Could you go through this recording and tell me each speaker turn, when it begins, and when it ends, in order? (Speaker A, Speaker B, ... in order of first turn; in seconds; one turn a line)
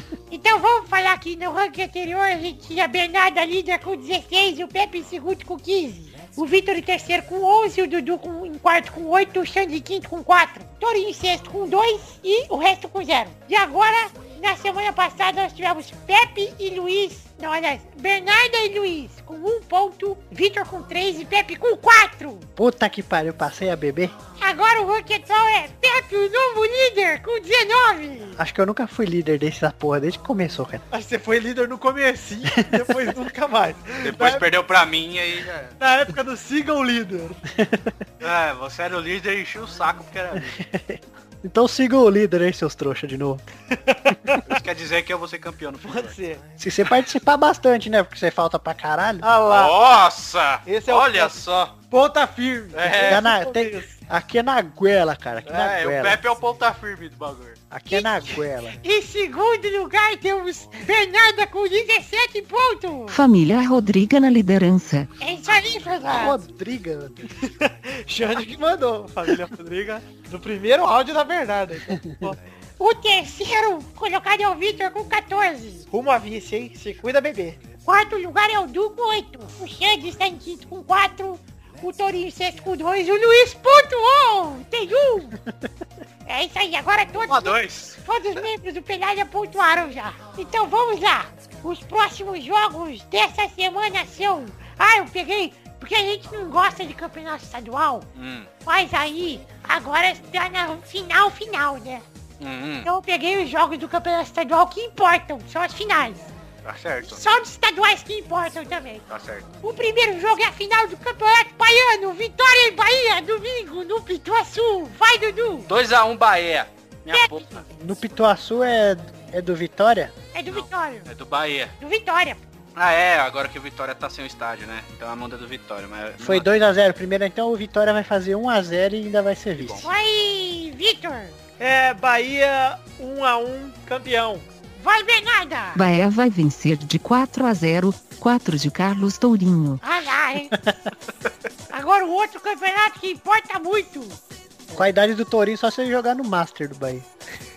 Speaker A: 0.3-22.5
Speaker B: 22.6-24.1
Speaker A: 24.4-28.4
Speaker B: 28.4-30.8
Speaker C: 30.9-34.4
Speaker B: 32.5-32.9
Speaker D: 34.0-35.7
Speaker C: 35.8-37.4
Speaker B: 37.5-38.0
Speaker D: 38.2-40.5
Speaker B: 40.3-43.4
Speaker C: 43.7-44.4
Speaker D: 44.4-46.2
Speaker C: 45.8-46.4
Speaker B: 46.6-49.3
Speaker C: 49.2-49.7
Speaker D: 49.5-51.7
Speaker C: 50.6-51.4
Speaker C: 51.9-54.0
Speaker D: 52.7-53.2
Speaker B: 53.0-56.2
Speaker D: 55.4-57.6
Speaker B: 57.7-58.8
Speaker A: 58.8-63.2
Speaker E: 63.1-65.1
Speaker A: 65.2-66.4
Speaker B: 66.1-67.3
Speaker C: 67.4-72.4
Speaker B: 71.9-72.3
Speaker A: 72.8-75.9
Speaker C: 75.9-77.6
Speaker A: 77.8-85.3
Speaker A: 86.2-98.1
Speaker D: 87.2-88.4
Speaker D: 98.1-98.5
Speaker A: 98.6-102.0
Speaker D: 102.4-102.9
Speaker A: 102.8-106.3
Speaker D: 106.6-107.2
Speaker A: 107.0-109.0
Speaker D: 109.1-109.5
Speaker A: 109.6-115.7
Speaker D: 115.7-117.7
Speaker A: 117.1-117.6
Speaker B: 117.7-120.1
Speaker A: 120.3-121.1
Speaker D: 120.5-121.7
Speaker A: 121.8-122.4
Speaker D: 122.8-126.5
Speaker B: 126.2-129.9
Speaker D: 129.6-129.9
Speaker A: 129.8-131.4
Speaker C: 131.6-134.4
Speaker A: 134.8-135.8
Speaker E: 135.7-139.8
Speaker A: 139.8-140.5
Speaker B: 140.5-140.8
Speaker A: 141.7-144.2
Speaker B: 144.7-147.1